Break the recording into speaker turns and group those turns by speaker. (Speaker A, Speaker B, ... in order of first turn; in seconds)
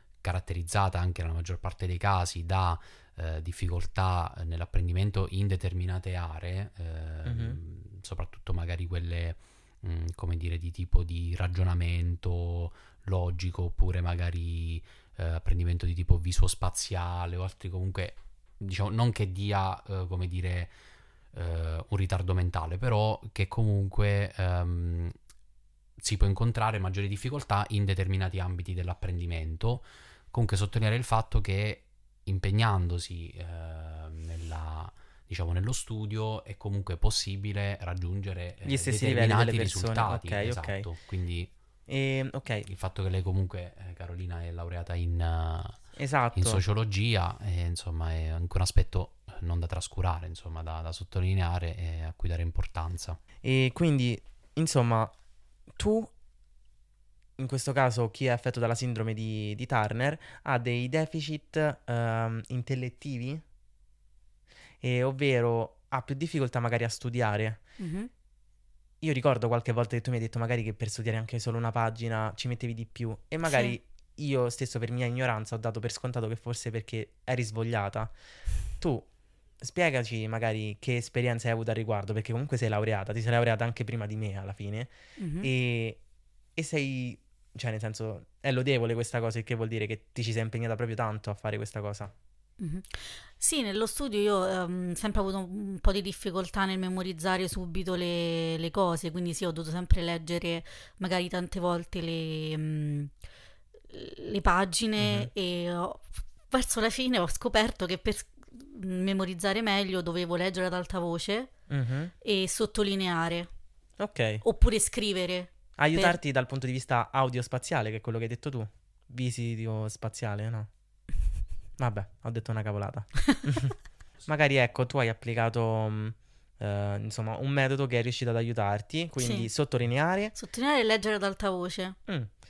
Speaker A: 0.2-20.7, 21.3-25.1, 26.0-41.5, 42.6-53.2
Speaker B: 7.2-7.6, 38.6-40.9, 41.9-42.7, 46.0-46.6, 53.4-55.1, 55.7-56.1, 57.4-63.4, 64.8-67.6, 69.0-78.1, 78.8-79.1, 79.6-86.0, 86.5-92.1, 105.0-105.3, 111.7-112.1, 114.0-114.4, 115.8-120.7, 121.8-130.3
Speaker C: 67.8-68.1, 73.5-73.7, 85.2-85.5, 92.6-103.1, 103.9-111.5, 112.2-113.5, 114.4-116.2, 129.2-129.5, 130.3-132.0